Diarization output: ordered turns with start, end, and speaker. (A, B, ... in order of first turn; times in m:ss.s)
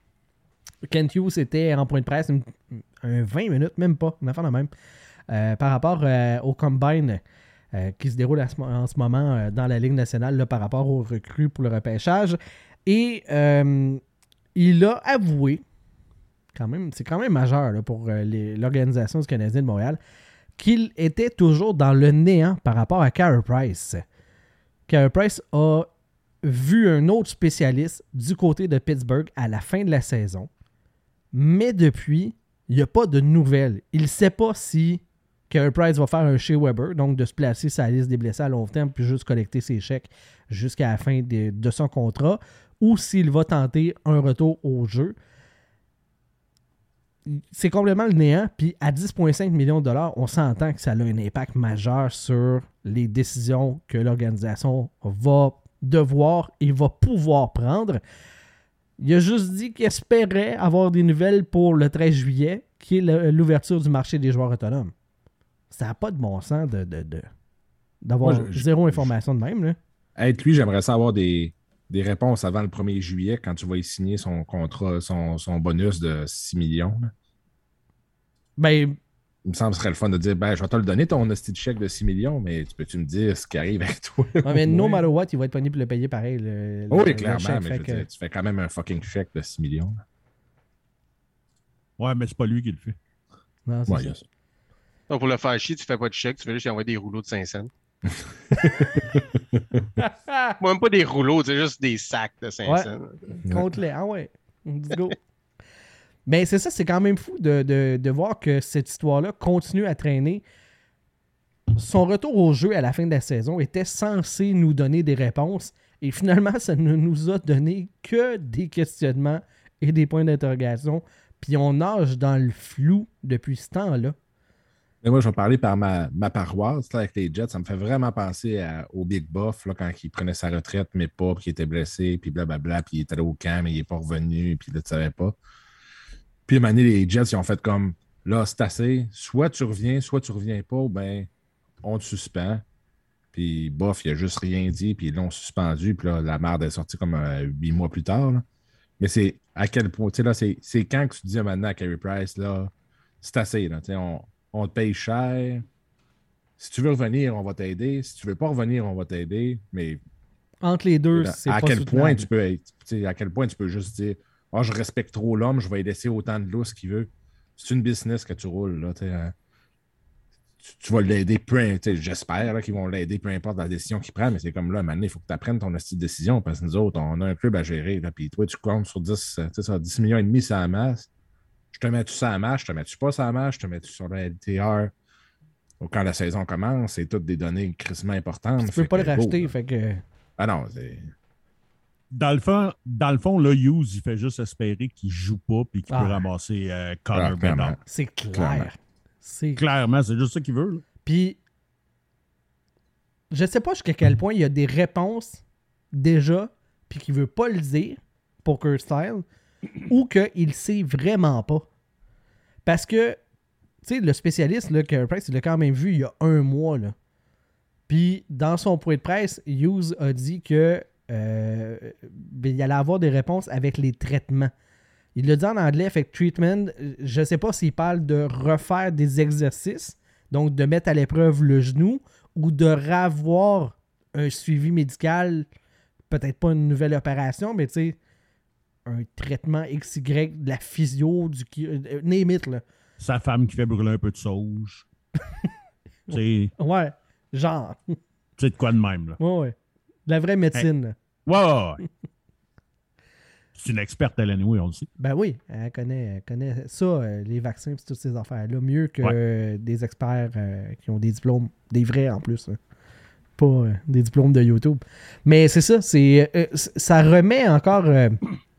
0:00.9-0:04.7 A
0:05.3-0:07.2 A
0:07.7-0:14.0 A
0:14.5-0:15.6 A
0:16.5-0:20.0 A
0:20.6-0:24.0 A
0:24.9-0:25.9 A
0:26.4-0:30.5 A
0:31.3-0:45.1 A
0:47.2-0:58.0 A
0:59.0-1:04.9 A
1:05.7-1:07.3 A
1:08.0-1:09.8 A
1:08.2-1:09.1 B
1:10.2-1:17.1 B
1:18.6-1:19.0 A
1:19.4-1:25.0 B
1:24.4-1:28.0 A
1:26.9-1:30.0 B
1:32.0-1:33.0 C
1:33.7-1:34.1 A
1:33.9-1:34.2 B
1:35.1-1:37.7 D
1:38.1-1:39.8 B
1:40.0-1:40.6 A
1:40.6-1:43.2 D
1:42.6-1:45.2 A
1:46.3-1:50.4 A
1:51.8-2:04.1 A
2:05.0-2:15.4 B
2:16.5-2:21.3 B
2:21.8-2:22.6 B
2:23.3-2:28.4 B
2:29.0-2:35.6 B
2:36.6-2:40.0 B
2:40.6-2:42.3 A
2:41.1-2:49.3 B
2:50.6-3:01.1 B
3:01.7-3:04.9 B
3:05.8-3:09.5 B
3:08.6-3:10.0 A
3:10.4-3:11.1 B
3:12.1-3:17.8 C
3:15.9-3:16.3 A
3:17.1-3:17.8 B
3:17.8-3:19.6 A
3:18.3-3:18.7 B
3:19.6-3:20.8 C
3:21.0-3:21.4 A
3:23.3-3:29.2 A
3:29.9-3:31.6 A
3:32.6-3:33.2 A
3:33.8-3:36.9 A
3:37.9-3:44.5 A
3:45.1-3:55.4 A
3:56.1-3:58.0 A
3:58.8-4:02.6 A
4:03.0-4:04.8 C
4:06.1-4:06.5 C
4:06.1-4:08.0 A
4:08.4-4:09.2 C
4:09.2-4:09.5 A
4:10.1-4:10.9 A
4:11.2-4:11.8 C
4:13.6-4:14.9 C
4:15.0-4:22.6 A
4:23.4-4:28.2 A